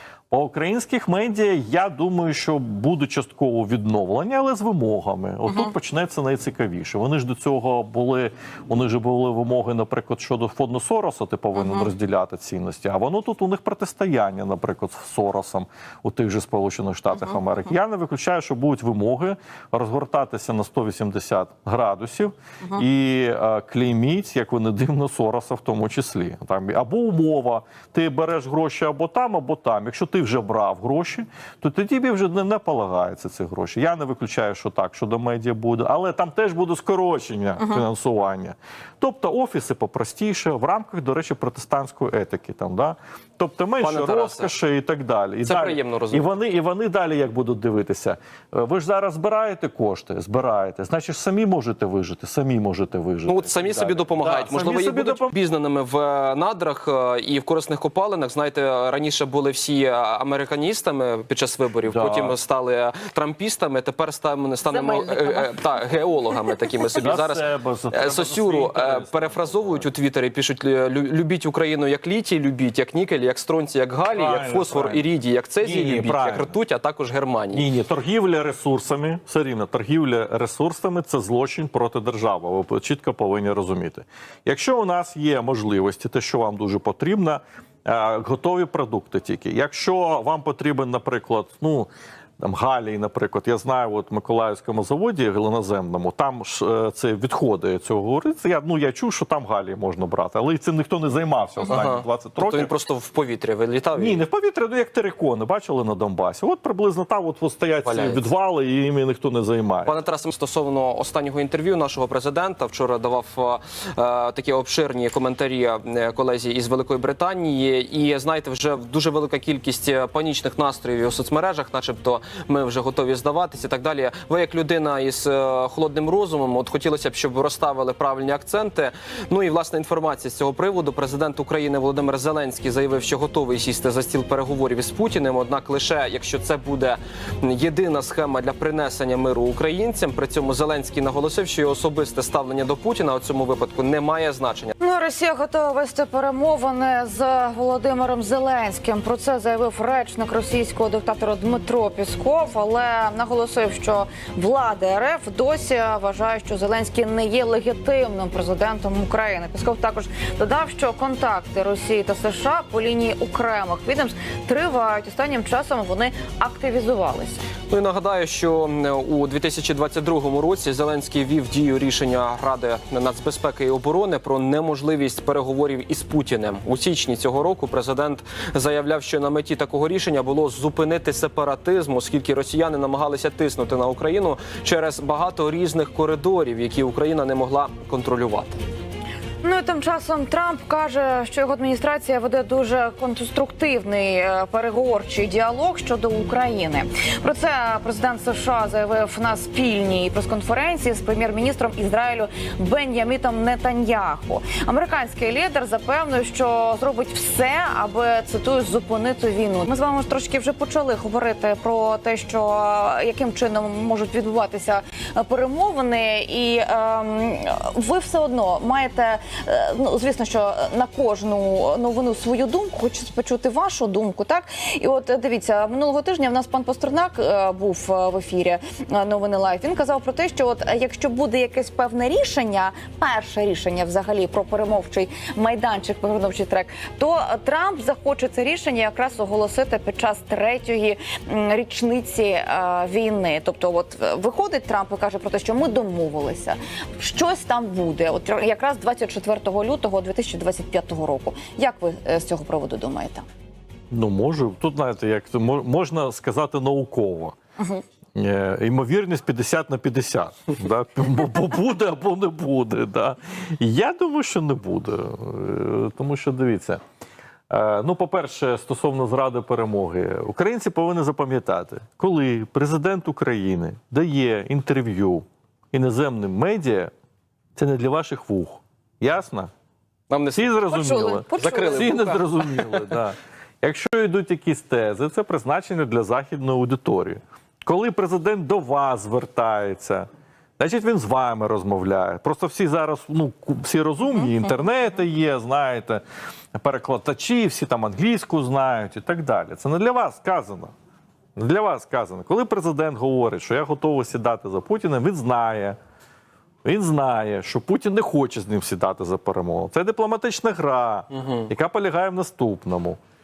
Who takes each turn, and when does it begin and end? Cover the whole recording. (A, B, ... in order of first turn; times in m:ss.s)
0:00.3-0:55.3 A
0:11.6-0:11.9 B
0:43.8-0:44.5 C
0:45.4-0:46.3 C
0:53.3-1:17.6 C
1:01.9-1:02.4 A
1:04.7-1:05.5 B
1:06.9-1:09.9 A
1:14.1-1:15.0 A
1:15.6-1:16.6 A
1:17.5-1:42.7 A
1:41.6-1:44.2 C
1:44.0-1:49.9 A
1:47.8-1:48.3 C
1:49.8-2:24.7 C
2:24.8-2:47.4 B
2:47.7-3:08.6 C
3:09.4-4:13.2 B
4:13.9-4:17.4 A
4:18.1-4:26.8 A
4:27.5-4:36.9 A
4:37.6-4:39.5 A
4:40.1-4:40.6 C
4:40.3-4:50.1 A
4:40.7-4:42.2 B
4:41.3-4:42.8 C
4:50.6-4:56.0 A
4:56.5-5:00.7 A
5:01.4-5:05.8 A
5:06.6-5:13.0 A
5:11.1-5:11.5 C